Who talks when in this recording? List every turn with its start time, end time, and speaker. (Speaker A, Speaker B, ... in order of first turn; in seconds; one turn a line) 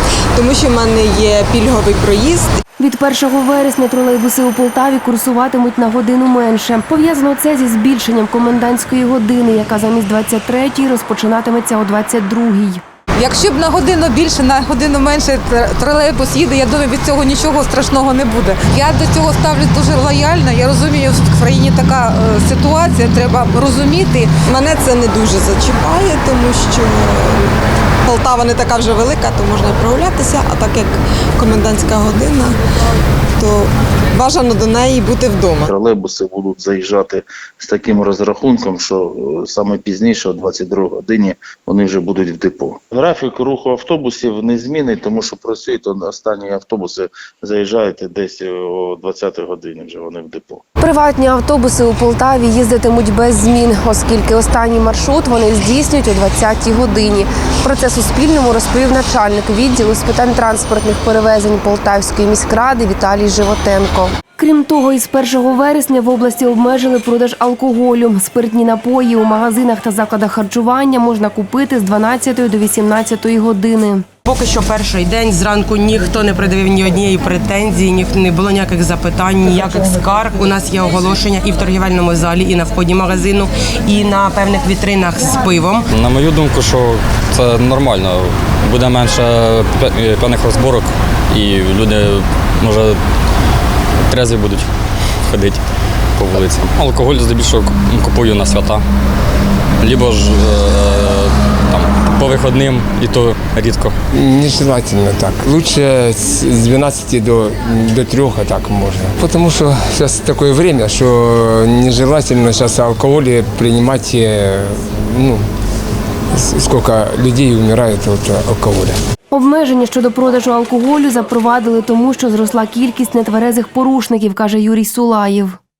Speaker A: 0.4-2.5
Speaker B: 2.8-12.8
Speaker C: 13.2-24.4
Speaker A: 24.4-27.6
Speaker A: 28.1-32.6
Speaker A: 33.4-35.6
Speaker D: 35.6-50.6
Speaker B: 50.8-74.0
Speaker E: 74.2-85.8
Speaker F: 85.9-93.0
Speaker F: 94.1-94.7
Speaker F: 95.3-95.6
Speaker F: 96.2-98.8
Speaker F: 99.8-103.9
Speaker G: 104.1-115.5
Speaker G: 116.3-119.0
Speaker B: 119.3-125.6